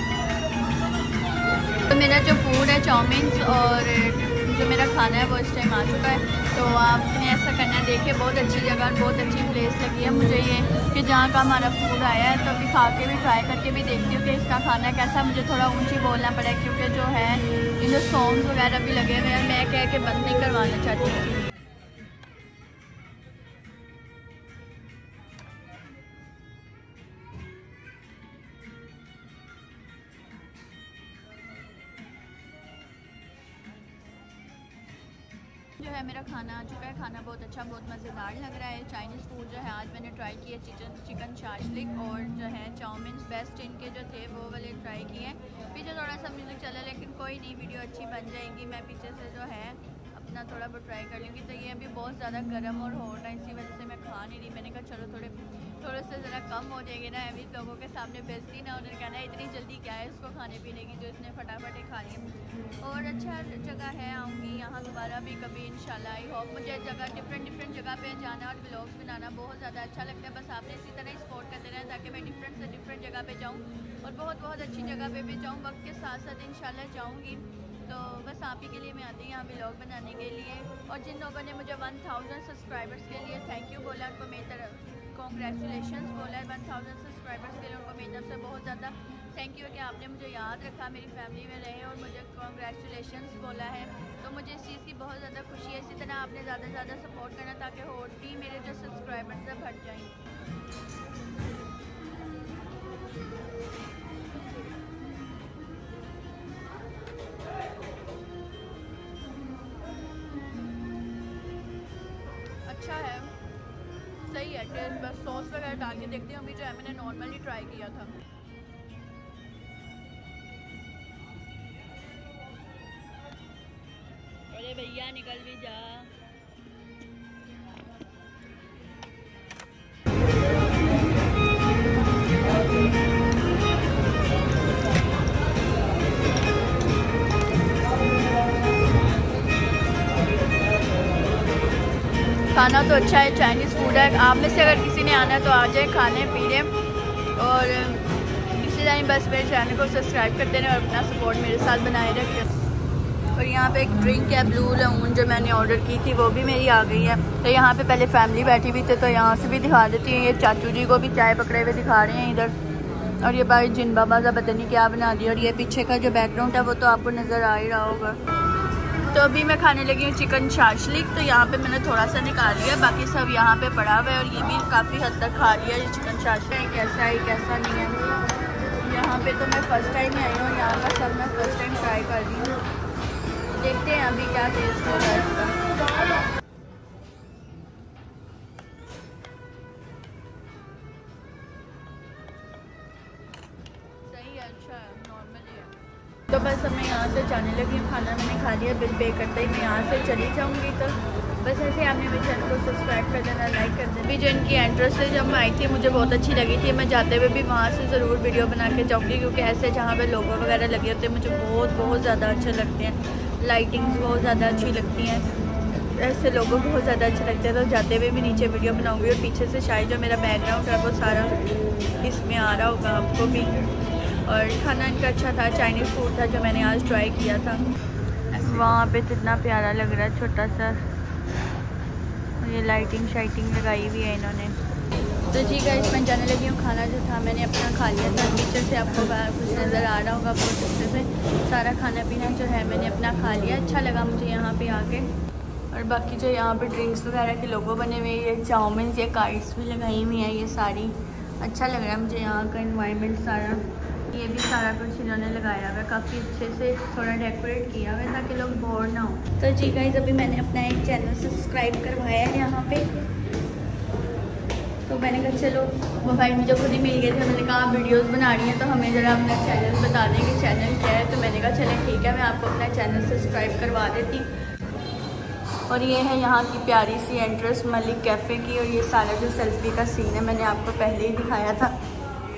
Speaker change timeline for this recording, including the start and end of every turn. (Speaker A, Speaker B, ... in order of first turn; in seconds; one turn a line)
Speaker A: 1.9-21.5
Speaker A: 35.8-100.1
Speaker A: 112.7-113.3
Speaker A: 114.2-118.2
Speaker A: 124.5-126.1
Speaker A: 142.5-146.7
Speaker A: 147.3-152.5
Speaker A: 153.3-162.5
Speaker A: 163.2-168.2
Speaker A: 169.1-178.1
Speaker A: 178.8-182.6
Speaker A: 183.5-185.6
Speaker A: 194.1-195.8
Speaker A: 196.3-215.3
Speaker A: 215.9-221.4
Speaker A: 222.0-227.6
Speaker A: 228.3-230.8
Speaker A: 232.4-234.6
Speaker A: 235.3-245.1
Speaker A: 245.7-262.9
Speaker A: 264.9-274.3
Speaker A: 275.7-281.7